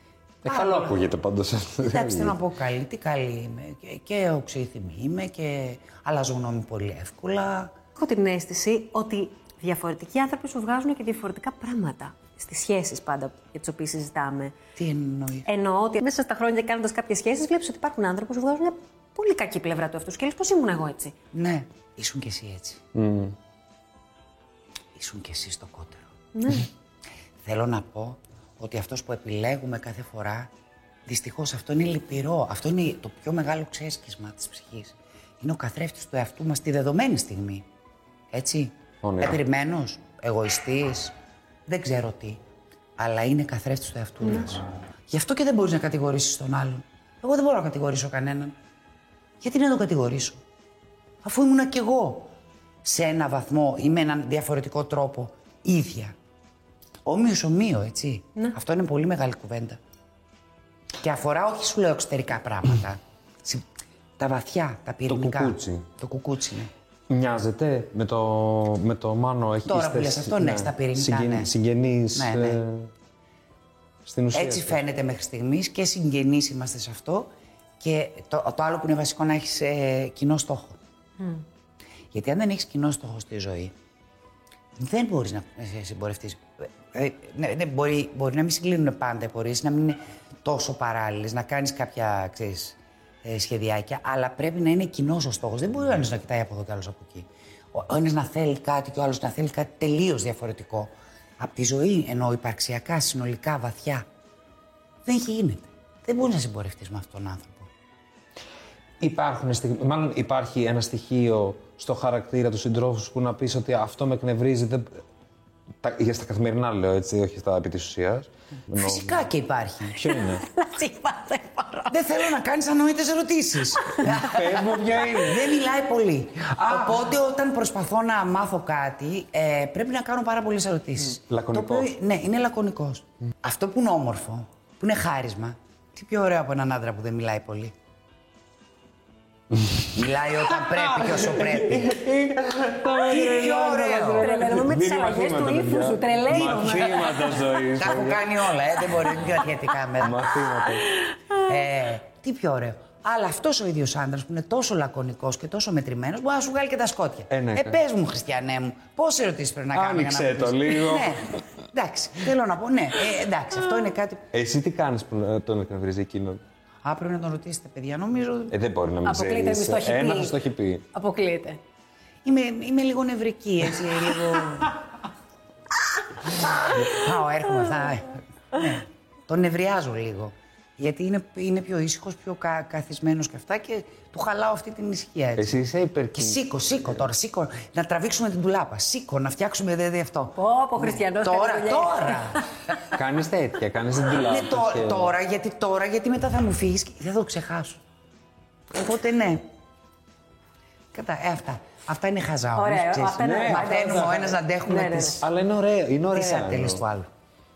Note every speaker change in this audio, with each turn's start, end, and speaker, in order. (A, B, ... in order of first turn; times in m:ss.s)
0:00.4-0:02.4 A
0:00.4-0:01.0 B
0:01.9-0:07.7 B
0:08.0-0:14.6 C
0:14.8-0:15.5 B
0:15.4-0:21.1 C
0:21.3-0:22.8 B
0:22.9-0:23.4 A
0:25.0-0:26.0 B
0:26.3-0:26.7 C
0:27.4-0:30.5 B
0:31.0-0:37.6 B
0:38.3-0:41.1 B
0:39.0-0:39.4 A
0:41.7-0:42.4 B
0:43.0-0:48.5 B
0:49.4-0:50.4 B
0:51.2-0:52.3 B
0:52.8-0:56.1 B
0:57.0-0:59.8 B
1:01.0-1:03.6 B
1:04.2-1:06.7 B
1:05.1-1:05.9 A
1:07.1-1:12.9 A
1:09.6-1:11.5 B
1:12.1-1:12.6 B
1:14.0-1:14.8 A
1:14.3-1:20.8 B
1:22.1-1:23.7 B
1:24.8-1:44.0 B
1:45.0-1:47.7 B
1:49.0-1:55.0 A
1:55.8-1:59.2 A
1:58.8-2:00.0 B
2:00.0-2:00.4 A
2:00.0-2:02.2 C
2:01.9-2:17.7 B
2:04.1-2:05.6 A
2:06.4-2:07.0 A
2:11.2-2:11.9 A
2:19.9-2:22.0 B
2:20.5-2:28.3 A
2:23.0-2:24.3 B
2:24.1-2:27.4 C
2:26.6-2:30.2 B
2:30.0-2:30.9 A
2:31.3-2:44.2 B
2:37.3-2:37.8 A
2:39.7-2:41.4 A
2:44.3-2:46.4 A
2:46.8-2:48.6 B
2:48.5-2:50.9 A
2:49.0-2:50.4 C
2:50.9-2:51.6 C
2:52.2-2:54.8 B
2:56.3-3:05.5 B
3:05.4-3:06.4 A
3:06.2-3:12.4 B
3:10.4-3:12.4 C
3:12.9-3:15.1 A
3:14.2-3:17.8 B
3:18.7-3:19.4 B
3:20.9-3:25.2 B
3:22.6-3:25.2 C
3:23.2-3:24.3 A
3:25.2-3:26.8 A
3:26.1-3:27.1 B